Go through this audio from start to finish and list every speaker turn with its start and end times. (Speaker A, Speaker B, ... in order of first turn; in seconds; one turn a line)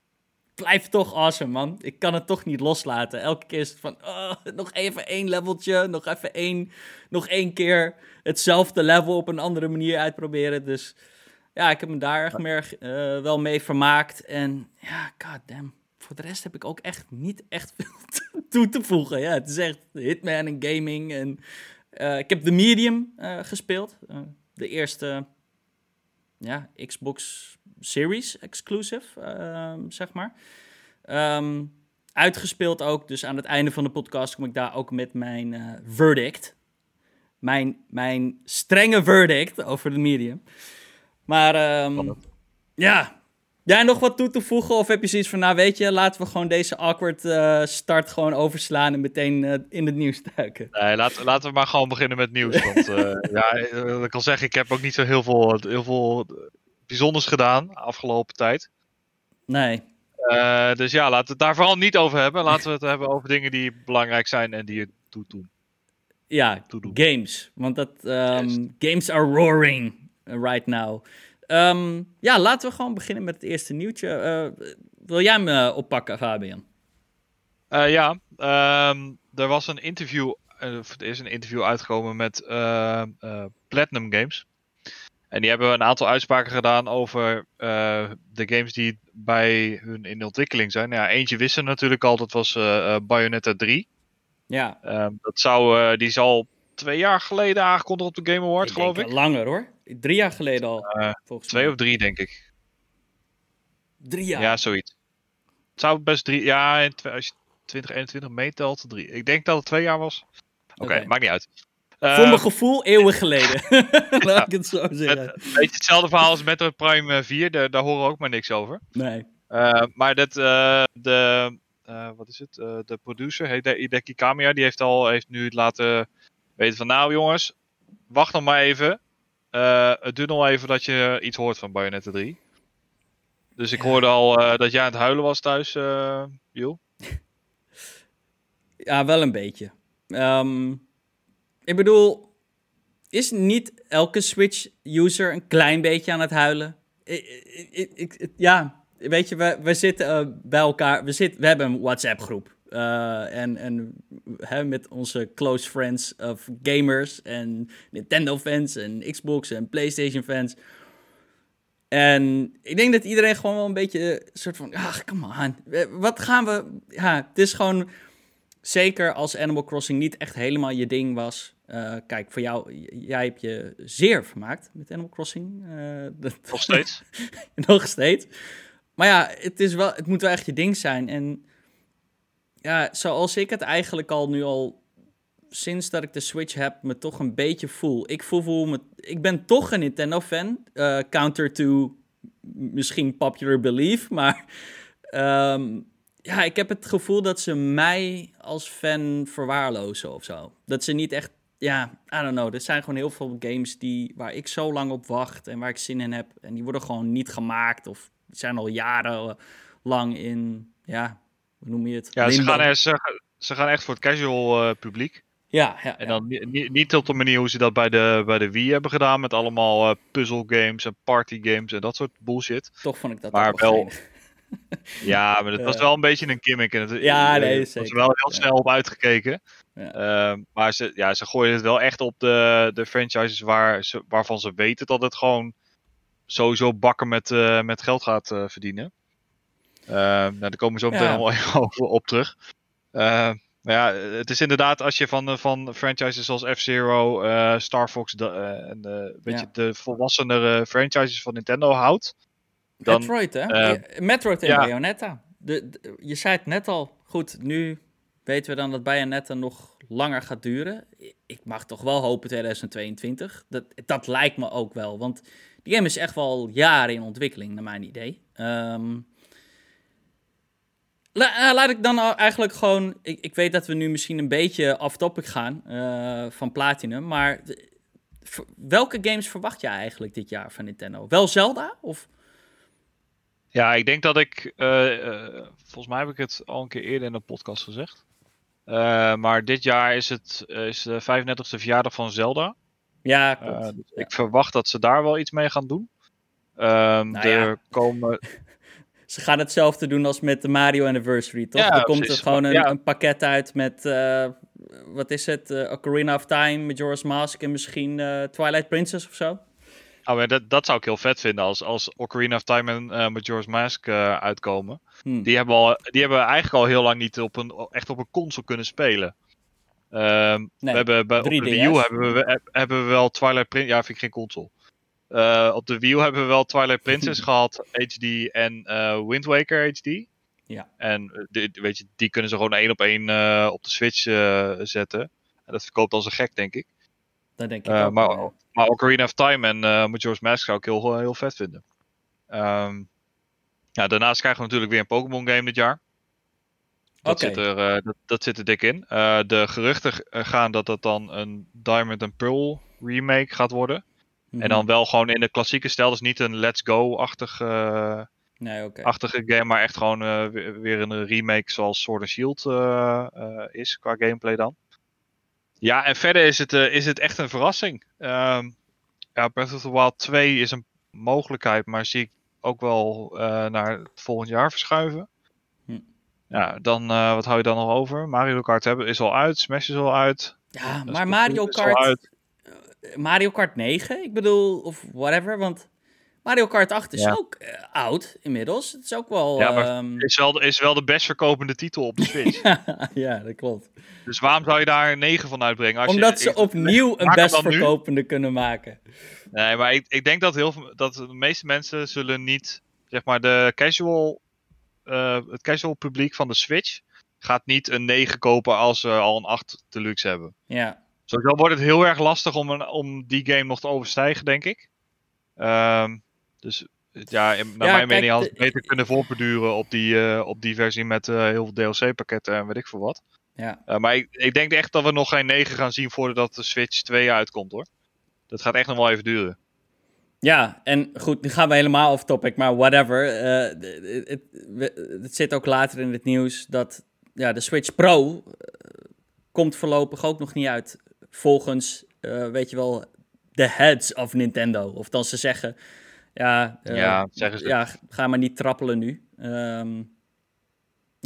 Speaker A: 0.6-11.0
Speaker A: 11.6-21.4
Speaker A: 21.9-25.2
Speaker A: 26.4-30.3
Speaker A: 31.1-36.5
Speaker A: 37.4-40.4
Speaker A: 41.3-42.2
Speaker A: 42.8-43.1
Speaker A: 43.7-50.7
Speaker B: 50.7-58.7
Speaker A: 52.5-53.1
Speaker A: 59.5-59.8
Speaker B: 60.2-65.5
Speaker A: 66.3-76.6
Speaker B: 77.7-84.5
Speaker B: 85.3-93.8
Speaker A: 94.5-94.8
Speaker B: 94.8-99.1
Speaker A: 98.6-101.7
Speaker B: 100.8-102.4
Speaker A: 104.0-104.6
Speaker B: 104.4-104.9
Speaker B: 105.8-110.2
Speaker B: 110.8-111.5
Speaker A: 110.8-111.1
Speaker B: 112.0-112.5
Speaker A: 112.1-115.5
Speaker B: 114.2-114.5
Speaker B: 115.1-118.8
Speaker A: 118.9-119.3
Speaker B: 119.5-127.5
Speaker B: 128.1-129.0
Speaker B: 129.5-132.4
Speaker B: 133.6-136.8
Speaker A: 138.9-140.8
Speaker A: 141.7-142.3
Speaker A: 143.1-160.6
Speaker A: 161.9-167.9
Speaker A: 168.6-176.8
Speaker B: 176.5-177.0
Speaker A: 177.6-178.3
Speaker A: 179.0-181.4
Speaker A: 182.6-184.8
Speaker A: 185.5-194.4
Speaker A: 195.1-212.7
Speaker B: 212.2-215.2
Speaker A: 215.5-216.2
Speaker B: 216.0-222.7
Speaker A: 222.8-224.0
Speaker B: 223.3-223.9
Speaker B: 225.0-229.4
Speaker A: 225.6-225.8
Speaker A: 227.0-228.5
Speaker B: 229.9-235.5
Speaker B: 236.3-238.9
Speaker B: 239.9-242.3
Speaker A: 240.9-241.2
Speaker B: 242.9-252.1
Speaker A: 252.8-269.1
Speaker B: 252.8-253.8
Speaker B: 254.4-254.7
Speaker A: 271.1-277.6
Speaker A: 278.2-282.1
Speaker B: 283.5-288.0
Speaker B: 288.7-292.5
Speaker A: 293.0-294.1
Speaker B: 293.4-295.9
Speaker B: 296.6-298.2
Speaker A: 297.1-297.5
Speaker A: 299.1-309.4
Speaker B: 301.6-302.7
Speaker B: 310.1-319.1
Speaker A: 315.0-315.3
Speaker B: 319.9-324.5
Speaker A: 320.6-321.8
Speaker B: 325.1-330.1
Speaker B: 330.8-336.7
Speaker A: 337.4-338.3
Speaker B: 337.6-341.6
Speaker B: 342.3-342.9
Speaker B: 343.8-345.8
Speaker A: 347.0-347.4
Speaker B: 347.1-353.8
Speaker A: 354.3-354.6
Speaker B: 354.4-358.1
Speaker A: 358.4-358.9
Speaker B: 358.8-364.5
Speaker B: 365.6-368.6
Speaker B: 369.1-375.1
Speaker B: 376.3-382.0
Speaker A: 380.5-381.9
Speaker A: 382.9-385.7
Speaker A: 386.2-390.1
Speaker B: 389.4-392.4
Speaker A: 392.3-393.7
Speaker B: 394.1-397.7
Speaker A: 395.9-398.8
Speaker B: 399.3-404.2
Speaker B: 404.9-410.3
Speaker A: 410.5-410.8
Speaker B: 411.1-414.6
Speaker B: 415.4-423.0
Speaker A: 417.6-418.6
Speaker B: 423.7-427.6
Speaker B: 428.3-429.4
Speaker A: 430.2-438.7
Speaker A: 439.3-445.5
Speaker A: 446.1-449.9
Speaker B: 446.7-447.5